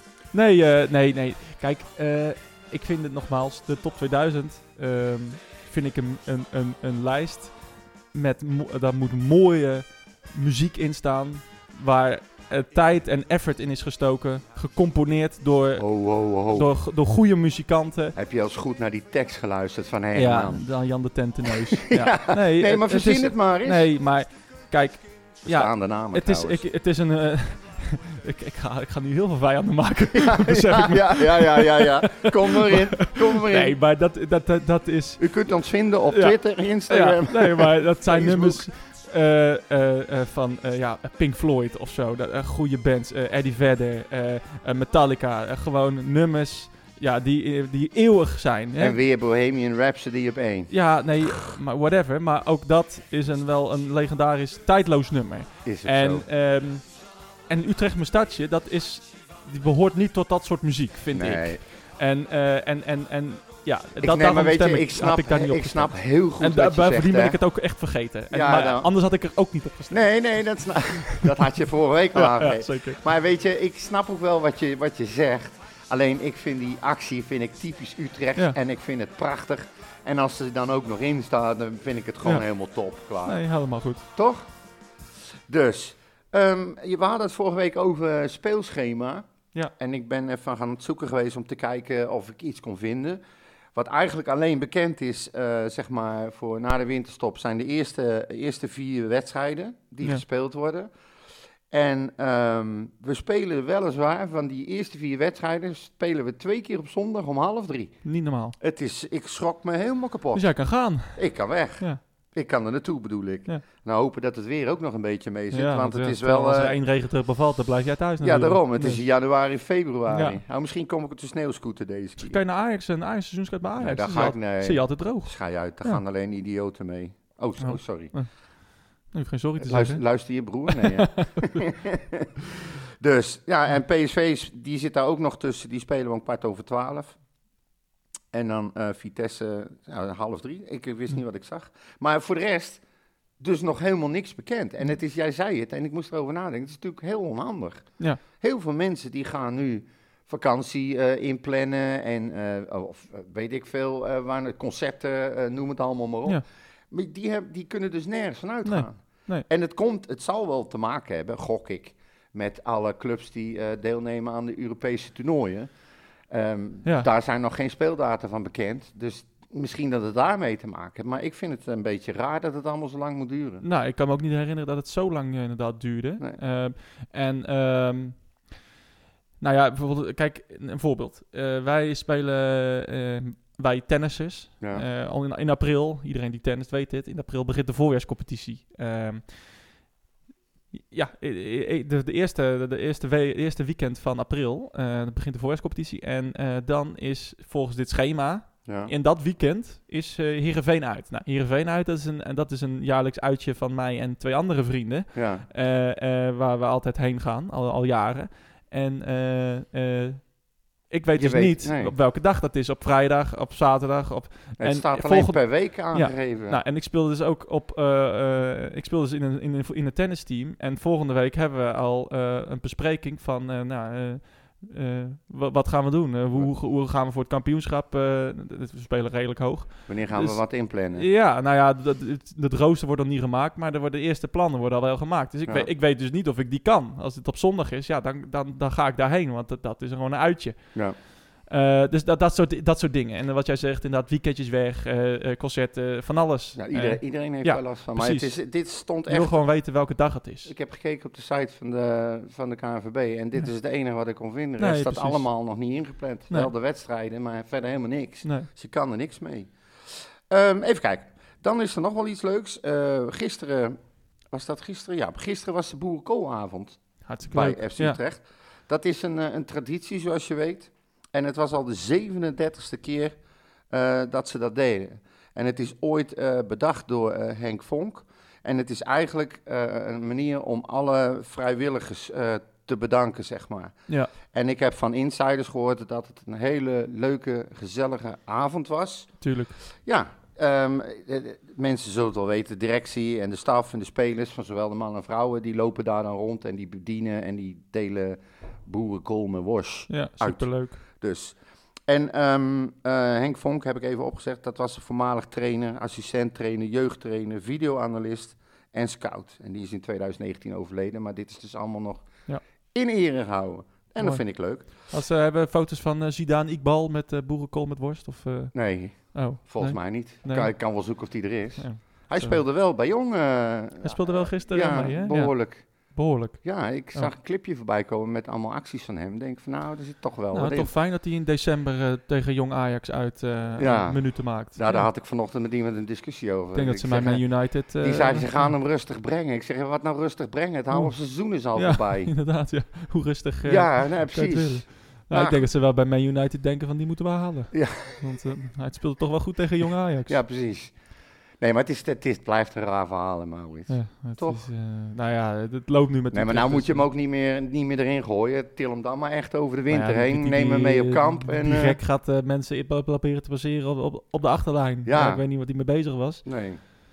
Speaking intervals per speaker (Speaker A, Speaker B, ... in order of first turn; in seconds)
Speaker A: 0.3-18.1, 20.1-35.5, 36.1-49.0, 50.7-70.1, 72.1-73.0, 83.2-84.0, 108.0-108.5, 110.3-112.0, 115.5-119.0, 120.1-120.4, 122.2-126.0, 127.6-131.5, 158.6-159.4, 173.6-178.5, 179.4-189.7, 190.7-250.5, 254.6-255.2, 258.2-258.5, 267.0-268.0, 289.2-289.6, 299.9-300.8, 314.0-320.5, 321.6-322.4, 323.8-327.1, 330.3-334.9, 336.5-338.5, 340.7-341.0, 341.5-350.2, 353.7-356.9, 359.7-366.2
Speaker B: 15.8-16.7, 18.1-20.6, 21.9-23.9, 25.4-26.6, 30.2-33.7, 35.2-38.7, 48.8-50.7, 55.6-56.2, 61.1-61.6, 64.0-67.4, 68.3-68.9, 69.9-83.4, 84.0-84.5, 85.5-93.2, 93.7-100.9, 101.7-116.8, 118.2-122.4, 123.8-128.2, 129.6-132.3, 133.0-137.2, 138.3-142.8, 143.4-165.7, 166.3-173.6, 198.6-198.9, 205.1-205.4, 211.2-211.9, 214.6-216.6, 229.9-231.1, 246.6-249.4, 250.4-263.8, 264.3-273.2, 273.7-312.1, 312.7-314.7, 318.5-330.7, 333.6-342.1, 343.4-345.4, 347.5-348.1, 350.1-350.8, 351.4-354.4, 356.1-361.8, 364.8-365.2, 366.2-366.6